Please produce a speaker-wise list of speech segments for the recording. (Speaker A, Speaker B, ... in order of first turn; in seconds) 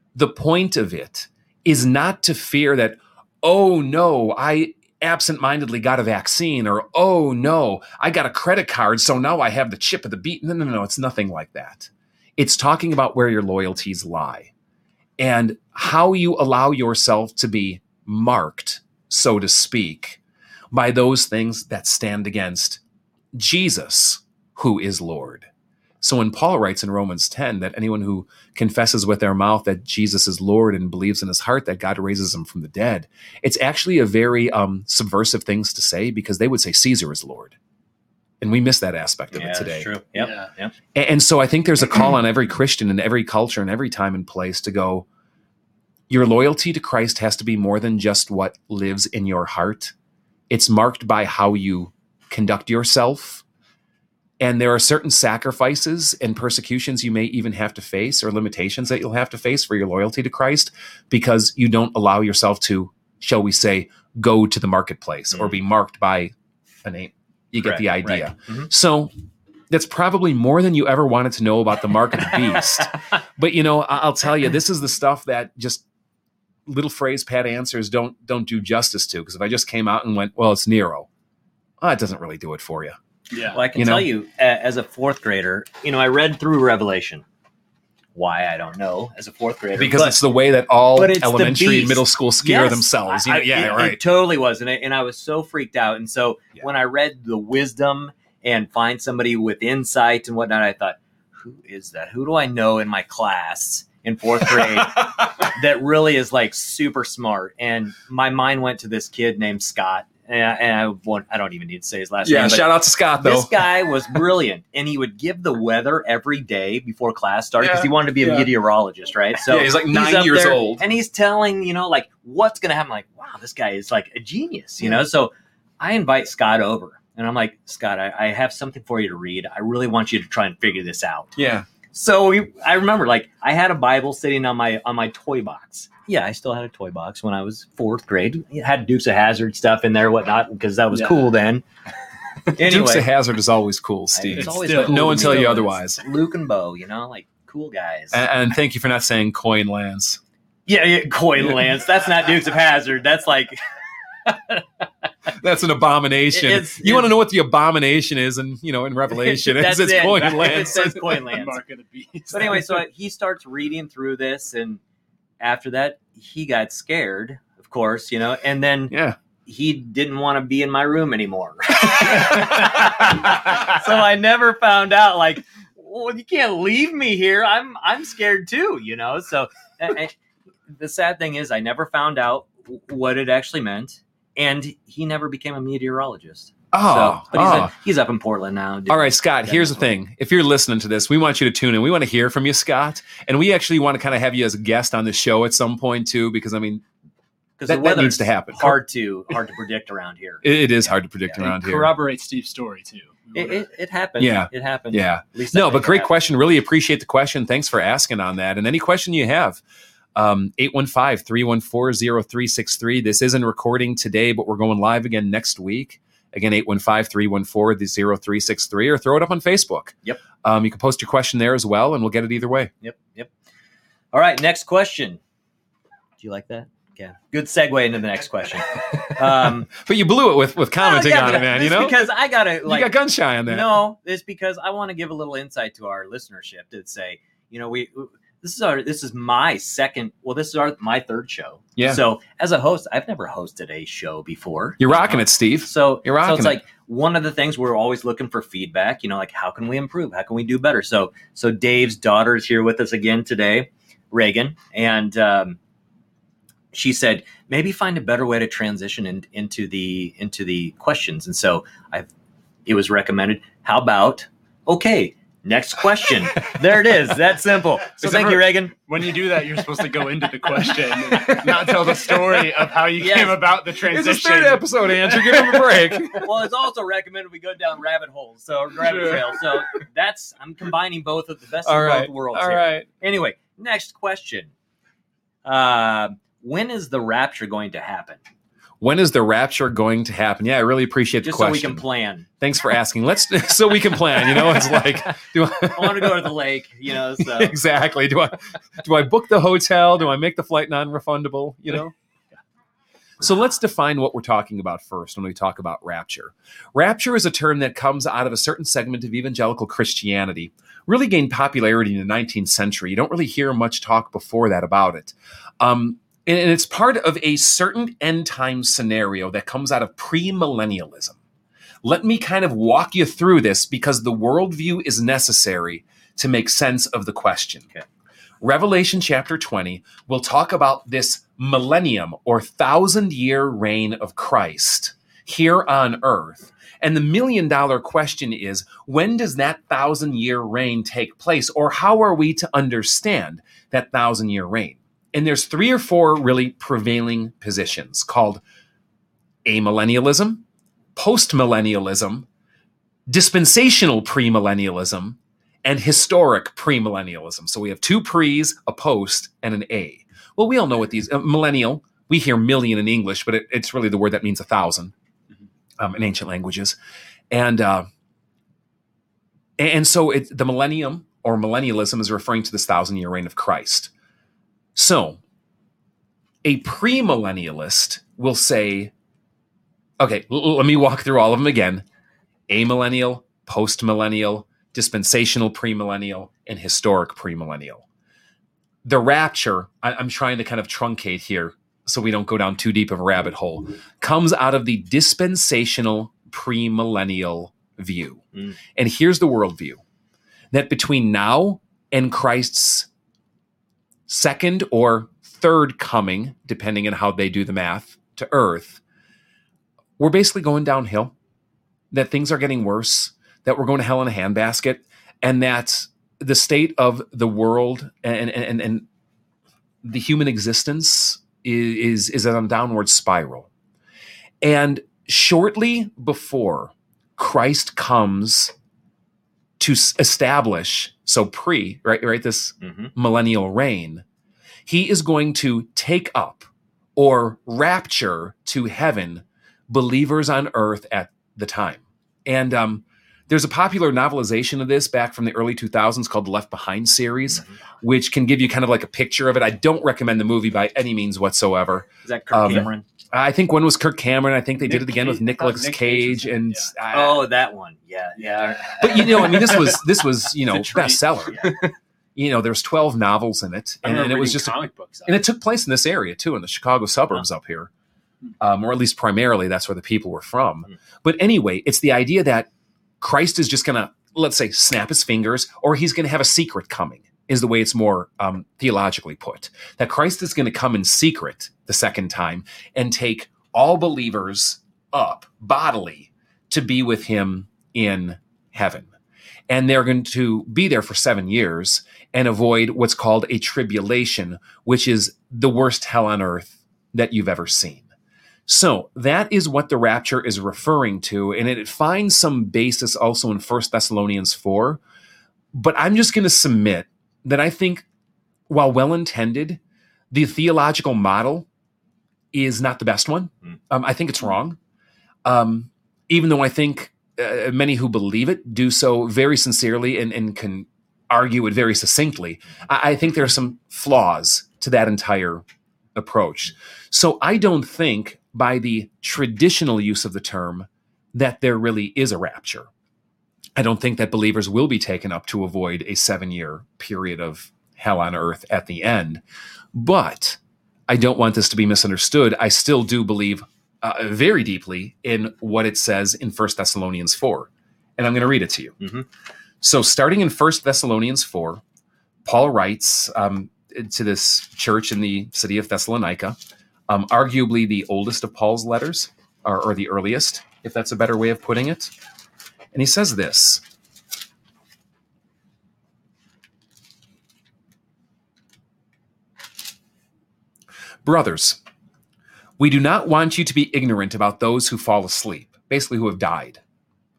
Speaker A: 0.1-14.5, 15.2-20.2, 20.7-22.8, 23.3-25.5, 26.0-37.6, 38.4-39.9, 41.0-45.1, 46.1-49.9, 50.5-53.4, 54.4-69.1, 69.7-75.8, 76.7-81.1, 81.8-83.0, 83.8-84.1, 89.8-94.0, 104.6-105.2, 112.2-113.7, 117.6-118.5, 119.4-120.8, 131.4-131.7, 142.6-146.0, 148.1-150.2, 155.3-161.2, 168.9-169.2, 172.0-172.6, 186.7-187.7, 188.9-196.8, 197.7-198.8, 200.4-201.9, 204.2-209.6, 210.2-222.7, 229.1-232.0, 232.7-233.8, 241.8-242.0, 244.8-246.6, 268.0-268.4, 270.4-272.5, 273.8-276.3, 281.6-282.9, 288.8-291.8, 292.4-296.3, 297.2-301.9, 303.2-321.2, 321.8-327.7, 328.4-348.4, 349.5-350.4, 351.0-352.3, 353.1-364.9, 365.8-366.8, 367.3-367.9, 369.6-373.9, 374.8-375.2, 376.4-378.9, 380.0-381.8, 382.5-387.9, 388.8-399.8, 400.5-402.9, 404.1-408.8, 410.0-411.1, 411.9-418.9, 419.8-423.5, 424.4-428.5, 429.6-434.0, 434.7-457.3, 458.8-461.6, 462.2-467.7, 468.4-472.5, 473.0-488.9, 489.5-497.9, 498.5-504.8, 505.5-507.9, 508.5-509.6, 510.1-511.5, 512.3-514.6, 515.2-525.4, 526.0-532.7, 533.6-539.2, 539.7-548.8, 549.6-551.6, 552.2-561.9, 562.7-563.6, 571.0-571.6, 572.6-576.6
Speaker B: 39.3-40.7, 65.3-65.6, 67.6-68.7, 83.5-87.2, 88.2-90.2, 90.9-131.3, 131.9-141.7, 142.5-143.1, 144.1-148.2, 150.7-153.6, 154.3-154.6, 156.3-157.1, 159.1-161.6, 162.3-164.8, 165.4-180.2, 180.7-189.9, 197.6-201.4, 203.3-206.1, 222.8-223.3, 224.1-225.2, 226.2-229.7, 230.8-232.9, 233.4-255.6, 256.7-262.1, 262.7-268.7, 273.0-273.4, 276.1-284.5, 285.4-288.2, 291.2-292.3, 295.7-297.6, 432.6-432.9, 452.0-452.9, 456.9-459.5, 461.3-461.6, 548.8-549.1
Speaker C: 83.3-83.6, 140.9-141.2, 144.3-145.6, 160.2-162.8, 201.4-203.7, 268.7-275.7, 454.6-456.7, 458.2-459.8, 460.5-461.6, 463.8-465.2